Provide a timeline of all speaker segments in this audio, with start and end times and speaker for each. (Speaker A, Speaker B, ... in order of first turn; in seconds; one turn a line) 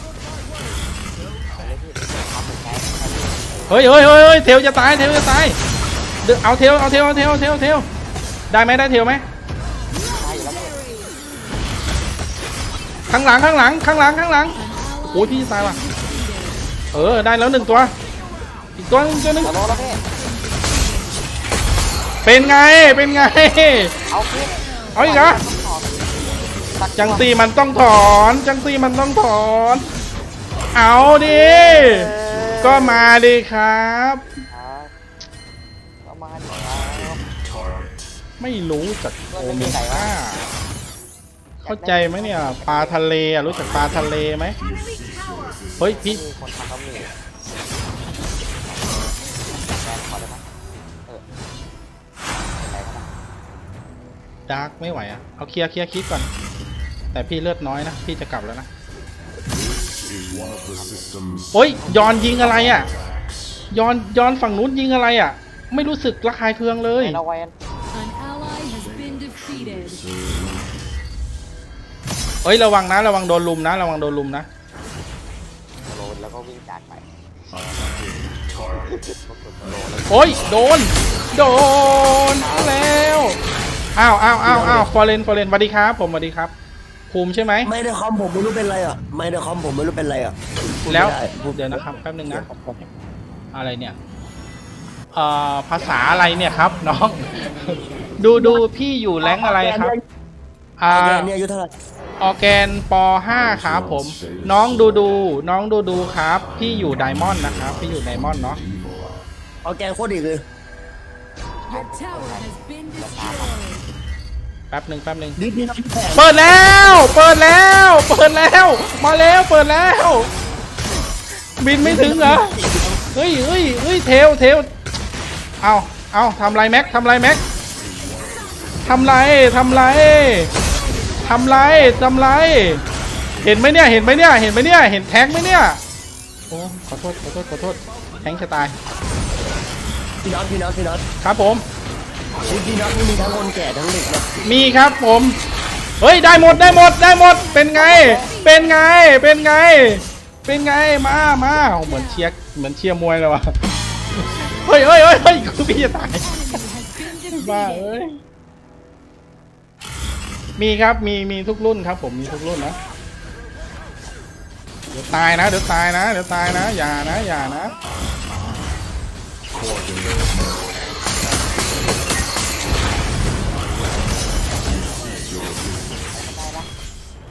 Speaker A: 1.5-4.0
Speaker B: 3.7-5.6
Speaker B: 6.2-7.9
Speaker B: 8.5-9.3
Speaker C: 9.9-11.2
Speaker A: 9.9-11.0
Speaker B: 13.1-14.6
Speaker C: 14.6-16.6
Speaker B: 15.1-15.8
Speaker B: 16.9-17.9
Speaker A: 17.5-17.9
Speaker B: 18.8-19.6
Speaker C: 19.0-21.2
Speaker A: 19.4-20.0
Speaker B: 22.2-23.9
Speaker C: 23.6-25.3
Speaker A: 24.1-27.3
Speaker B: 24.9-25.4
Speaker B: 27.0-29.9
Speaker B: 30.7-34.3
Speaker A: 31.2-33.0
Speaker D: 32.2-32.8
Speaker A: 34.5-34.9
Speaker A: 36.0-37.3
Speaker B: 38.4-40.5
Speaker A: 39.3-40.2
Speaker A: 41.6-43.1
Speaker B: 41.6-44.6
Speaker D: 43.5-45.8
Speaker B: 45.8-46.2
Speaker A: 45.8-47.1
Speaker A: 48.6-50.5
Speaker A: 52.6-53.1
Speaker B: 54.5-56.3
Speaker B: 57.1-58.7
Speaker D: 59.5-63.7
Speaker A: 60.8-61.1
Speaker B: 61.5-62.9
Speaker A: 61.8-63.0
Speaker B: 63.7-67.2
Speaker A: 67.0-67.5
Speaker C: 67.9-70.0
Speaker D: 68.6-71.0
Speaker B: 72.4-74.5
Speaker A: 75.8-77.8
Speaker D: 77.6-78.8
Speaker A: 78.7-83.4
Speaker D: 80.0-80.3
Speaker B: 80.1-83.4
Speaker D: 81.0-81.2
Speaker B: 84.0-86.5
Speaker E: 84.4-84.9
Speaker B: 87.1-87.7
Speaker E: 87.7-92.9
Speaker B: 90.9-92.5
Speaker B: 93.5-94.0
Speaker B: 95.1-99.9
Speaker E: 98.3-98.6
Speaker E: 99.2-100.0
Speaker B: 100.8-101.3
Speaker E: 100.9-101.7
Speaker B: 102.2-108.6
Speaker D: 103.3-105.4
Speaker D: 105.9-109.2
Speaker E: 109.6-110.4
Speaker A: 111.6-113.6
Speaker C: 111.7-113.8
Speaker B: 114.7-115.4
Speaker E: 115.4-116.4
Speaker B: 116.1-120.3
Speaker B: 121.6-122.6
Speaker E: 121.8-123.0
Speaker B: 123.1-124.7
Speaker B: 125.6-127.4
Speaker D: 128.0-128.9
Speaker B: 128.8-130.5
Speaker B: 131.2-132.8
Speaker B: 133.4-135.8
Speaker B: 136.5-138.8
Speaker E: 140.2-141.0
Speaker B: 141.2-141.7
Speaker E: 142.4-144.4
Speaker B: 144.4-145.4
Speaker B: 146.0-153.5
Speaker E: 146.5-146.8
Speaker C: 146.9-149.1
Speaker A: 147.8-148.3
Speaker C: 151.6-152.3
Speaker D: 154.0-156.2
Speaker B: 154.2-156.3
Speaker C: 156.0-157.9
Speaker B: 157.4-158.2
Speaker B: 160.6-162.8
Speaker B: 164.9-167.7
Speaker D: 167.8-168.8
Speaker D: 169.5-172.1
Speaker D: 173.7-174.1
Speaker A: 174.5-175.4
Speaker D: 174.6-176.0
Speaker A: 176.1-176.7